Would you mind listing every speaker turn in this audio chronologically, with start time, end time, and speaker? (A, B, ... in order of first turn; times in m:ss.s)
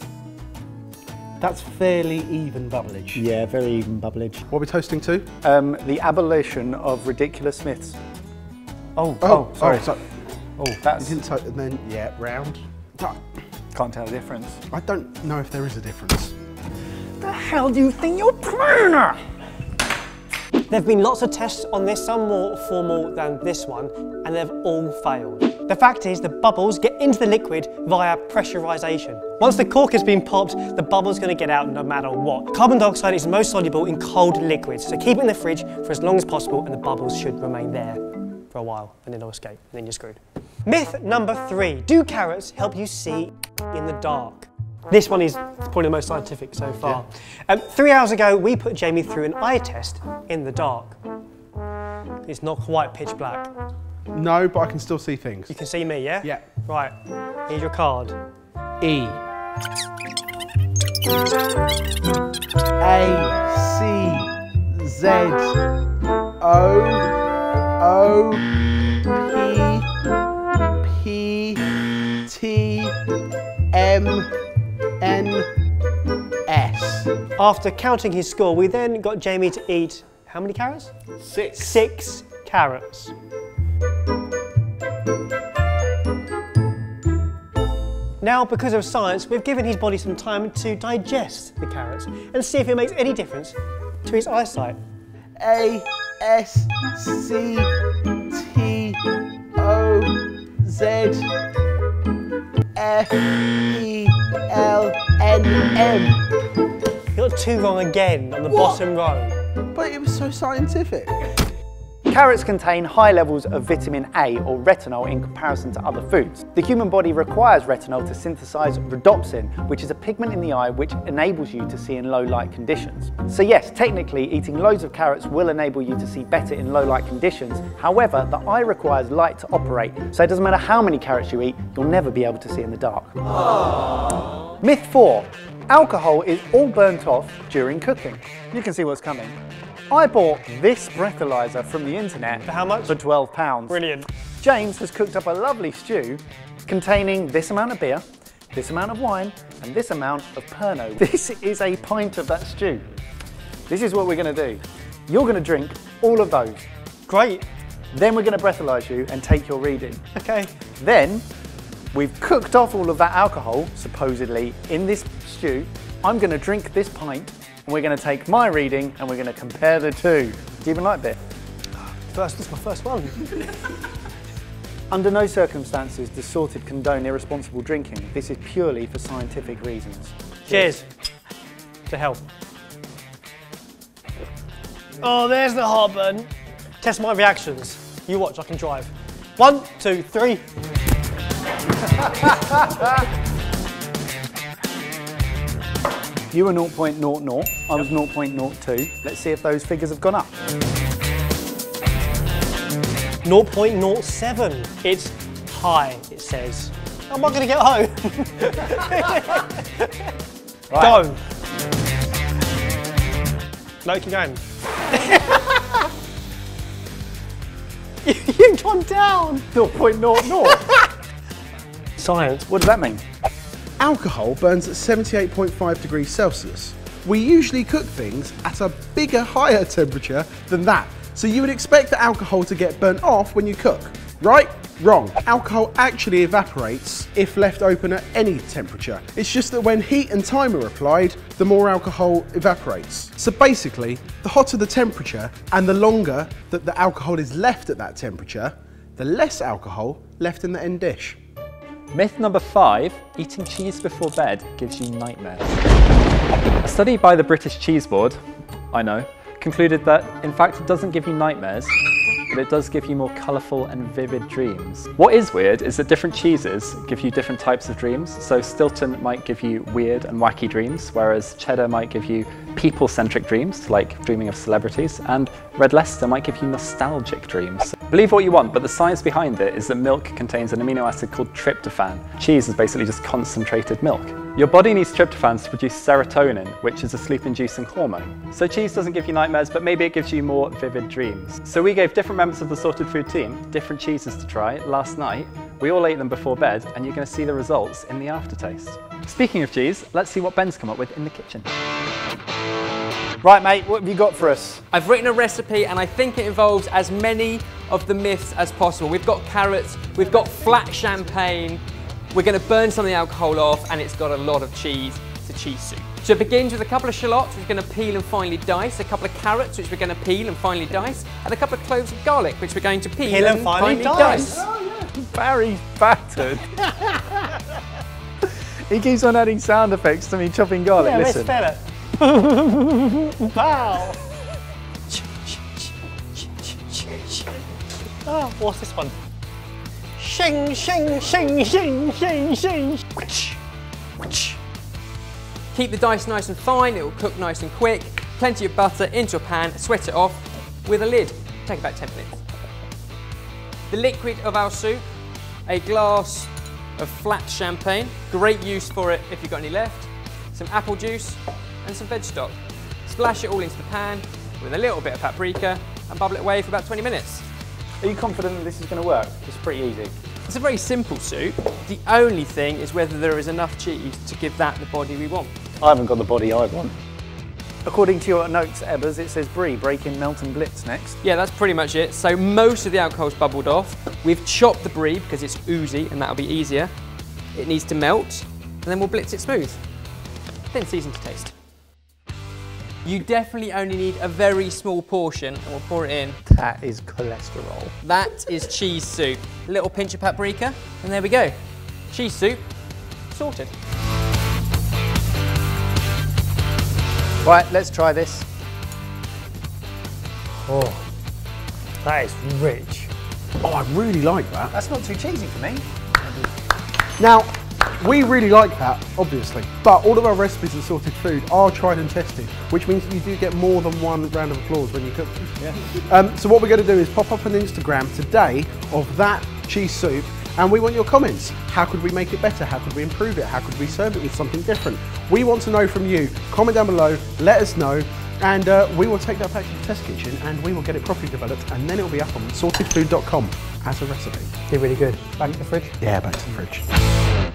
0:01.4-0:03.2 A
0:03.1-0:04.4 B
0:04.5-0:05.3 A
0:05.4-0:08.0 B
0:09.0-0:09.6 C
0:09.2-0:10.0 A
0:09.4-0:09.9 B
0:10.6-0:13.2 A
0:10.8-0:11.2 B
0:13.7-0:14.6 B
0:14.7-0:16.3 A
0:17.2-0:19.2 B
0:20.7-0:51.0 C
0:52.2-0:53.5 C
0:54.1-0:55.5 A
0:55.5-0:56.9 C
0:57.5-0:58.2 C
0:58.8-0:59.2 A
1:02.8-1:05.6 A
1:06.4-1:07.1 A
1:07.8-1:08.4 A
1:09.1-1:09.9 A
1:10.8-1:11.6 A
1:12.3-1:13.0 A
1:13.7-1:14.3 A
1:15.0-1:15.5 A
1:16.5-1:17.1 A
1:17.4-1:20.9 C
1:21.2-1:21.8 A
1:21.6-1:23.1 C
1:28.2-1:34.8 C
1:35.4-1:37.7 A
1:38.3-1:39.0 A
1:39.6-1:41.3 A
1:42.8-1:46.2 A
1:47.1-1:49.4 C
1:49.7-1:51.3 A
1:52.1-2:13.6 B
2:14.6-2:19.4 B
2:19.9-2:23.8 B
2:22.4-2:23.0 C
2:23.7-2:24.1 C
2:24.4-2:32.8 B
2:33.7-2:36.7 B
2:37.1-2:37.4 C
2:37.9-2:40.0 B
2:40.2-2:40.5 C
2:40.8-2:41.2 B
2:41.9-2:51.2 B
2:51.8-2:53.3 C
2:54.9-3:00.7 B
3:00.5-3:00.9 C
3:01.9-3:02.2 C
3:05.0-3:10.4 C
3:16.3-3:20.3 B
3:23.2-3:30.1 C
3:30.7-3:31.0 B
3:30.8-3:31.2 C
3:33.8-3:35.6 C
3:38.0-3:39.5 C
3:39.5-3:40.6 B
3:40.2-3:40.9 C
3:42.0-3:42.5 C
3:42.5-3:43.0 B
3:43.8-4:11.2 A
4:11.9-4:15.6 D
4:16.6-4:18.2 D
4:18.7-4:21.7 D
4:22.3-5:01.5 D
5:03.2-5:04.6 B
5:04.7-5:24.4 E
5:23.0-5:24.4 C
5:24.3-5:27.3 B
5:28.2-5:31.3 B
5:30.8-5:34.0 C
5:34.9-5:37.4 C
5:38.0-5:39.0 C
5:40.0-5:43.4 C
5:44.0-5:44.4 C
5:45.5-5:52.2 E
5:53.7-5:54.9 E
5:55.5-6:07.3 E
6:07.8-6:10.0 B
6:10.3-6:15.3 E
6:15.6-6:16.8 B
6:17.6-6:21.0 B
6:21.0-6:26.7 E
6:27.3-6:29.6 E
6:30.5-6:31.3 E
6:32.8-6:36.2 E
6:36.3-6:37.8 B
6:37.8-6:41.3 E
6:41.9-6:42.5 E
6:43.1-6:43.5 E
6:47.2-6:48.3 B
6:50.4-6:50.8 C
6:51.8-6:52.9 C
6:53.4-6:54.5 A
6:54.5-6:55.6 B
6:57.0-7:24.3 A
7:24.5-7:25.8 C
7:25.8-7:26.7 A